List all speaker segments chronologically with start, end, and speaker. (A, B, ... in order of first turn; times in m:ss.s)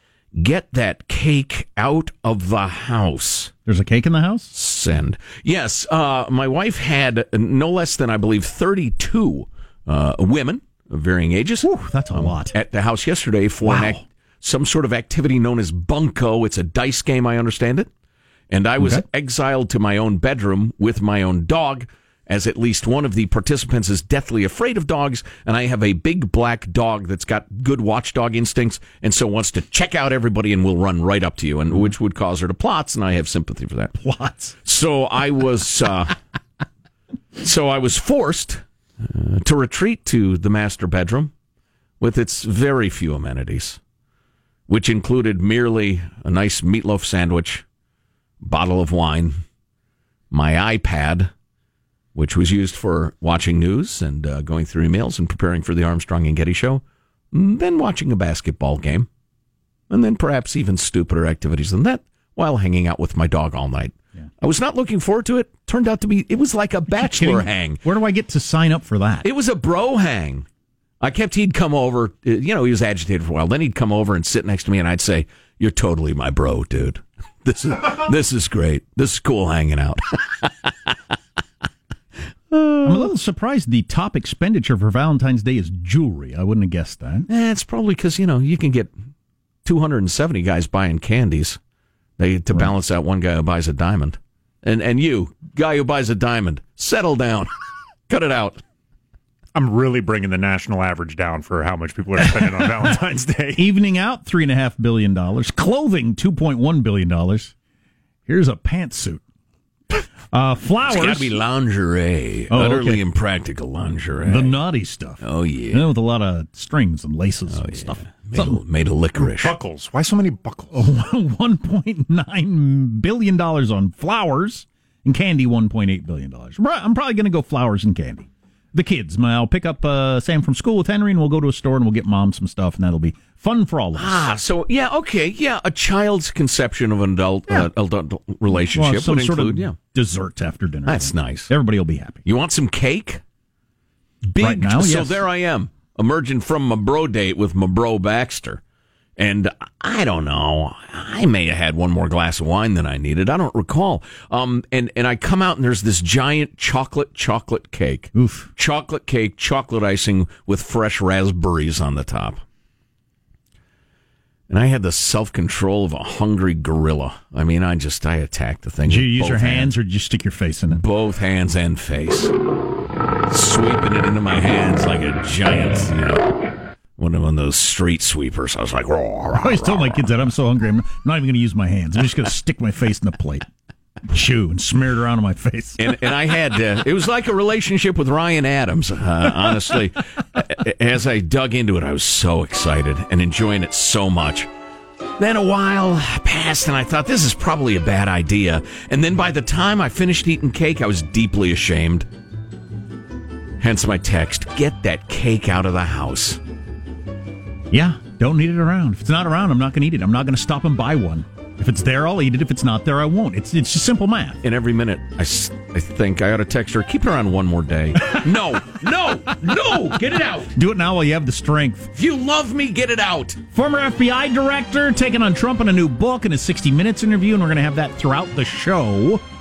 0:00.3-0:03.5 A
0:03.6-0:04.5 B
0:04.5-0:17.9 A
0:11.6-0:12.5 B
0:13.6-0:14.0 B
0:18.5-0:34.0 A
0:18.8-0:19.0 B
0:34.0-0:34.6 B
0:34.6-0:36.1 A
0:37.4-0:41.3 A
0:42.0-0:43.8 A
0:44.7-0:47.6 A
0:48.4-0:49.4 A
0:50.3-0:51.3 A
0:52.1-0:59.1 A
0:59.9-1:07.8 A
1:06.9-1:09.2 B
1:09.2-1:10.4 A
1:11.0-1:20.9 A
1:22.5-1:23.1 A
1:22.8-1:27.3 B
1:27.3-1:28.9 A
1:29.6-1:31.6 A
1:32.2-1:37.5 A
1:38.1-1:38.6 A
1:39.5-1:43.6 C
1:42.2-1:42.9 B
1:43.6-1:47.5 B
1:48.2-1:49.2 B
1:49.9-1:51.3 B
1:50.9-1:54.6 A
1:52.5-1:53.0 B
1:54.2-1:58.6 B
1:55.2-1:55.9 A
1:57.5-1:59.6 A
1:59.3-2:00.8 C
2:00.7-2:14.3 B
2:13.9-2:19.8 A
2:18.5-2:22.2 B
2:20.8-2:21.5 A
2:22.2-2:23.2 A
2:24.2-2:28.6 A
2:24.4-2:25.2 B
2:29.2-2:42.4 A
2:38.1-2:38.5 B
2:44.5-2:49.7 A
2:48.8-2:50.8 B
2:50.7-2:52.3 A
2:53.3-2:56.3 A
2:57.0-3:00.1 A
2:59.4-3:03.5 B
3:04.1-3:06.0 B
3:05.8-3:14.5 A
3:15.2-3:22.1 A
3:23.6-3:26.4 A
3:27.7-3:34.4 B
3:34.4-3:40.5 A
3:40.5-3:41.9 B
3:41.9-3:43.4 A
3:43.5-3:49.2 B